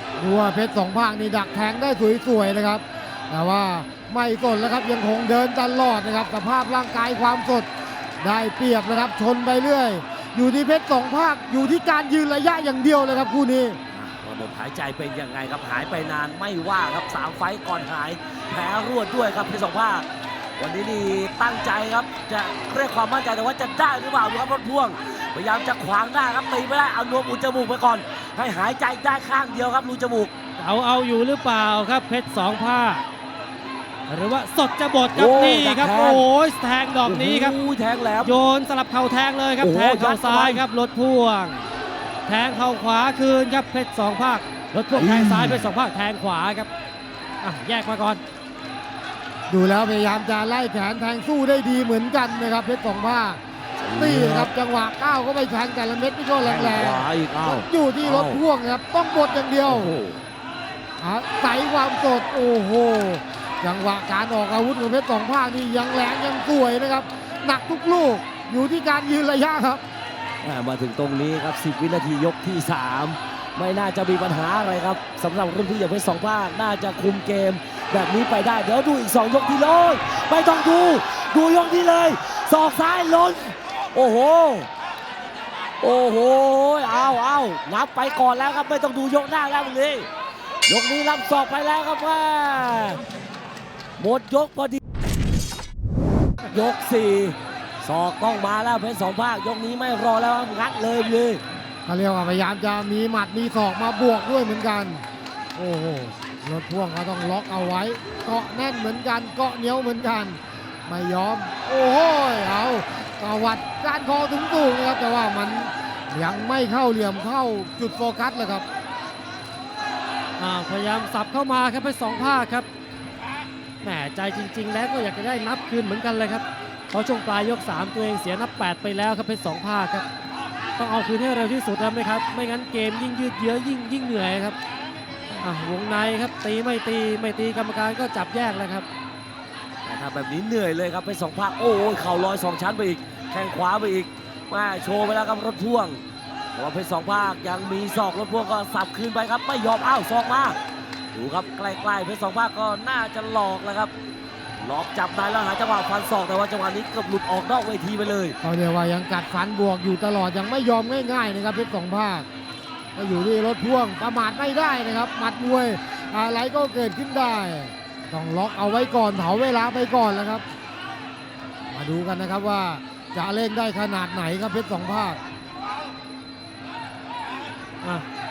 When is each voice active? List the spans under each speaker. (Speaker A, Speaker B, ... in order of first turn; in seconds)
Speaker A: 0.2-7.7, 8.2-13.8, 49.5-53.4, 53.9-59.9, 61.0-69.8, 101.8-118.7, 158.4-162.3, 162.9-170.4, 171.7-175.2
Speaker B: 13.9-20.1, 20.6-30.3, 35.1-36.3, 37.0-38.4, 39.6-40.6, 44.9-45.7, 53.8-54.5, 56.4-58.4, 59.6-60.2, 70.4-84.7, 85.8-90.1, 90.7-93.0, 94.0-94.8, 96.5-101.4, 139.8-146.0, 146.5-150.6, 151.1-153.9, 154.6-158.3
Speaker C: 30.6-33.0, 34.1-37.5, 38.2-41.7, 42.2-46.7, 47.4-48.2, 120.4-122.7, 123.8-130.0, 130.8-134.6, 135.4-138.8